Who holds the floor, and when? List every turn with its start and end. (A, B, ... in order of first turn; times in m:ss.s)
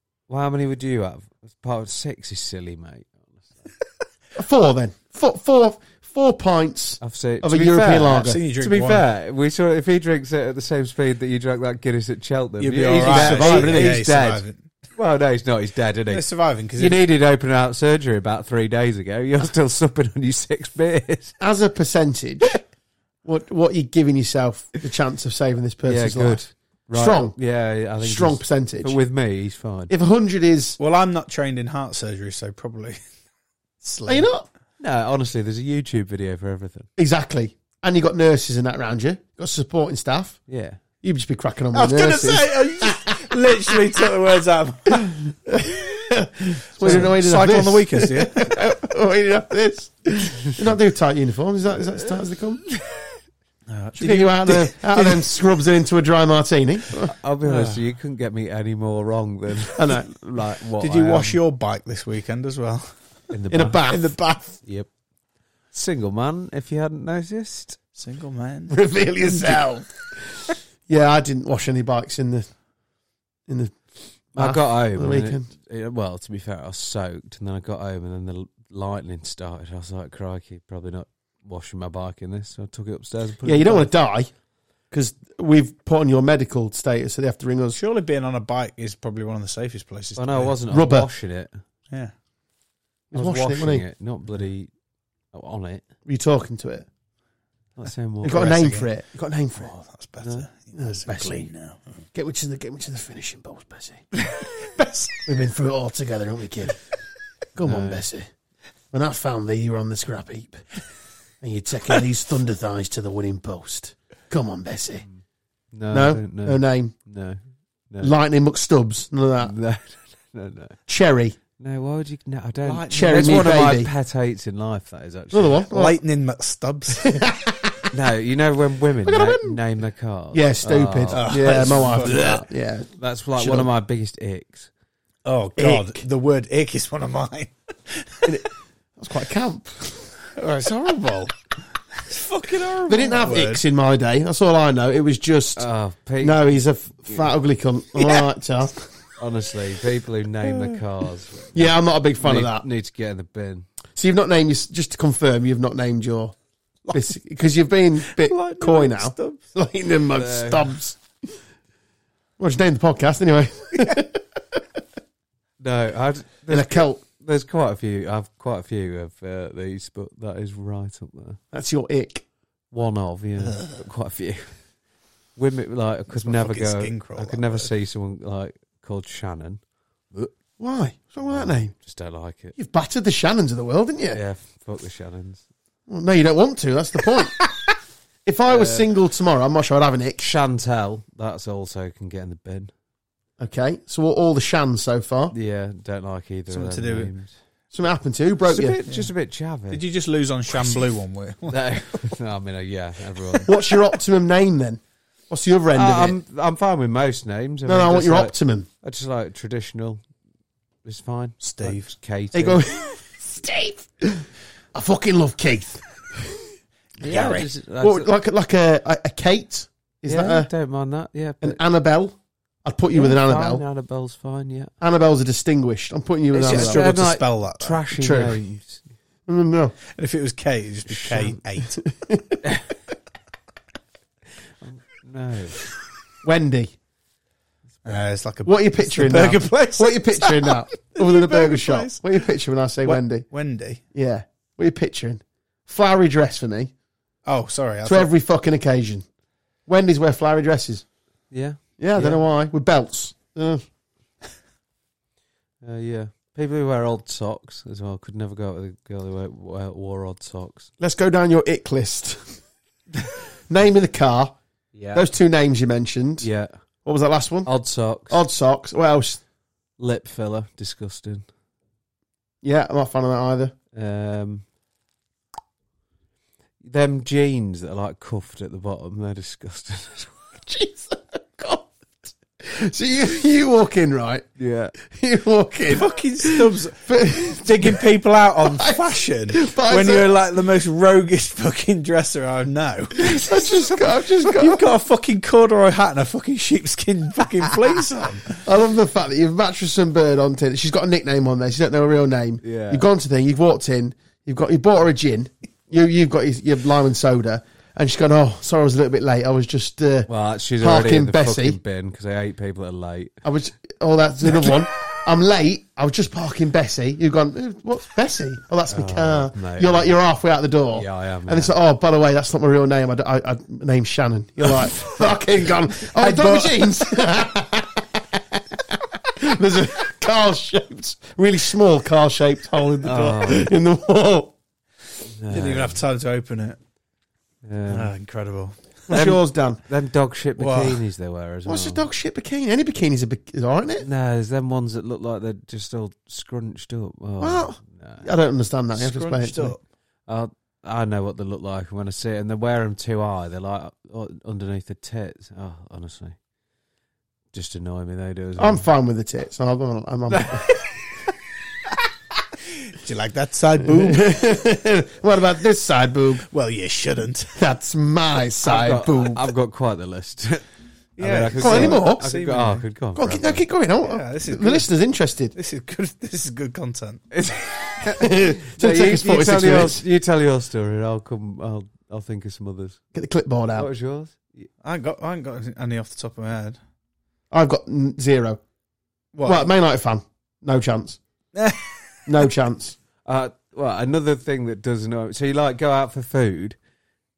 0:00.3-0:03.7 A
0:04.4-0:08.4 B
0:07.0-0:14.4 A
0:08.1-0:09.0 C
0:12.6-0:14.6 C
0:13.0-0:14.0 B
0:15.0-0:16.2 A
0:16.1-0:17.0 C
0:16.8-0:21.4 A
0:21.4-0:22.6 B
0:23.2-0:26.4 B
0:25.9-0:29.9 A
0:26.9-0:27.4 B
0:28.0-0:29.0 B
0:29.9-0:30.8 B
0:30.8-0:33.0 C
0:33.8-0:34.3 C
0:34.1-0:34.5 B
0:34.8-0:36.9 A
0:37.0-0:40.4 B
0:40.5-0:40.8 A
0:41.0-0:43.8 B
0:41.7-0:45.1 C
0:44.9-0:52.6 B
0:46.8-0:48.6 C
0:46.8-0:47.1 A
0:53.7-0:55.4 C
0:54.0-0:57.1 B
0:57.1-1:01.4 A
0:57.4-0:57.8 C
0:59.7-1:00.2 B
1:00.8-1:02.9 C
1:03.3-1:03.8 A
1:03.5-1:04.1 B
1:03.9-1:04.6 C
1:04.6-1:04.9 A
1:05.7-1:07.8 A
1:07.9-1:09.7 C
1:08.7-1:09.9 B
1:10.9-1:12.5 B
1:13.5-1:13.8 B
1:14.3-1:15.5 B
1:14.4-1:23.9 A
1:23.4-1:24.3 B
1:24.9-1:27.8 B
1:27.7-1:30.6 C
1:30.2-1:31.5 A
1:30.7-1:31.1 B
1:33.1-1:33.8 B
1:33.1-1:34.7 A
1:35.3-1:35.8 A
1:36.0-1:36.9 B
1:37.8-1:38.5 A
1:38.2-1:39.7 B
1:38.2-1:38.9 C
1:39.6-1:41.8 C
1:40.2-1:40.4 A
1:40.8-1:41.5 B
1:42.1-1:44.0 B
1:44.2-1:45.3 C
1:45.2-1:46.8 B
1:47.5-1:48.3 B
1:47.6-1:48.0 A
1:48.9-1:50.6 B
1:51.4-1:55.0 B
1:55.7-1:57.4 A
1:55.9-1:56.9 B
1:58.0-1:59.5 B
1:59.4-2:00.8 A
2:00.9-2:01.4 B
2:01.6-2:05.6 A
2:02.6-2:03.5 C
2:02.9-2:03.9 B
2:05.3-2:06.0 B
2:05.7-2:07.2 C
2:07.0-2:07.9 B
2:07.9-2:12.4 A
2:09.0-2:09.6 B
2:10.3-2:13.7 B
2:11.1-2:12.4 C
2:13.0-2:14.7 A
2:15.2-2:18.4 C
2:15.6-2:16.0 B
2:18.2-2:20.1 B
2:20.3-2:23.6 C
2:22.8-2:25.7 B
2:25.6-2:27.2 A
2:26.2-2:28.7 B
2:29.2-2:31.7 A
2:30.4-2:30.8 C
2:31.5-2:32.6 B
2:32.2-2:33.6 A
2:34.0-2:36.3 B
2:36.9-2:41.0 B
2:38.0-2:39.4 C
2:40.1-2:40.7 A
2:42.4-2:44.6 B
2:45.6-2:51.4 A
2:46.5-2:47.0 B
2:51.5-2:52.2 B
2:52.7-2:54.5 A
2:55.4-2:59.6 A
2:56.1-2:57.7 C
3:00.6-3:01.7 B
3:01.2-3:02.6 A
3:02.6-3:04.2 B
3:04.1-3:05.4 A
3:05.9-3:07.4 B
3:08.2-3:10.2 B
3:08.4-3:08.9 A
3:10.2-3:12.7 A
3:13.4-3:15.3 B
3:15.3-3:17.3 A
3:16.5-3:17.1 C
3:17.7-3:18.8 B
3:18.4-3:19.8 A
3:19.7-3:21.6 C
3:21.5-3:23.5 A
3:23.4-3:26.2 B
3:25.7-3:30.0 A
3:27.6-3:28.7 B
3:30.8-3:32.7 A
3:31.4-3:31.9 C
3:32.3-3:36.4 B
3:37.0-3:38.1 A
3:37.1-3:40.5 B
3:37.1-3:37.4 C
3:40.0-3:41.6 A
3:41.4-3:43.6 B
3:42.9-3:44.7 A
3:44.8-3:46.9 B
3:46.3-3:47.8 C
3:46.4-3:48.8 A
3:48.0-3:48.4 B
3:49.3-3:49.8 B
3:49.9-3:51.8 C
3:50.9-3:51.4 A
3:51.8-3:52.4 B
3:54.6-3:55.6 A
3:56.2-3:56.7 B
3:57.8-4:02.2 C
3:58.4-4:03.3 B
4:02.8-4:03.8 C
4:03.9-4:06.7 B
4:07.2-4:08.1 C
4:07.8-4:09.0 B
4:09.7-4:10.8 B
4:11.3-4:11.6 A
4:11.8-4:13.6 B
4:15.6-4:20.7 A
4:20.8-4:22.4 B
4:23.5-4:24.4 B
4:24.7-4:25.1 A
4:24.9-4:26.3 B
4:26.2-4:26.5 A
4:26.8-4:27.5 B
4:27.4-4:28.2 A
4:28.1-4:29.2 B
4:29.8-4:31.2 A
4:32.4-4:33.5 B
4:33.7-4:34.4 A
4:36.6-4:40.3 A
4:40.4-4:44.2 B
4:44.4-4:44.7 A
4:44.8-4:47.9 B
4:45.7-4:58.4 C
4:48.4-4:50.1 B
4:53.0-4:54.6 B
4:58.3-5:11.6 B
5:02.4-5:02.8 A
5:10.1-5:13.2 A
5:13.2-5:34.3 B
5:18.7-5:19.9 A
5:20.7-5:21.5 A
5:25.7-5:26.9 C
5:32.8-5:33.5 A
5:35.1-5:35.8 A
5:35.3-5:36.6 C
5:37.4-5:37.9 A
5:37.7-5:38.9 C
5:38.9-5:39.6 B
5:38.9-5:41.8 A
5:40.4-5:40.8 C
5:41.4-5:43.9 B
5:43.8-5:48.1 A
5:47.2-5:49.6 B
5:48.7-5:49.6 C
5:50.1-5:56.2 A
5:57.3-5:58.6 A
5:58.4-6:00.5 B
6:02.6-6:04.4 C
6:03.6-6:06.2 B
6:06.3-6:07.4 C
6:07.3-6:09.2 B
6:08.4-6:10.4 A
6:11.0-6:12.6 C
6:11.0-6:13.4 A
6:11.4-6:12.1 B
6:12.9-6:15.3 B
6:13.8-6:14.7 C
6:15.3-6:17.2 C
6:17.1-6:22.8 A
6:17.8-6:19.8 B
6:22.9-6:23.7 B
6:23.6-6:24.5 A
6:24.6-6:26.6 C
6:27.3-6:28.4 B
6:29.1-6:29.5 C
6:29.2-6:31.0 B
6:31.3-6:31.9 C
6:32.1-6:32.8 B
6:33.0-6:36.6 A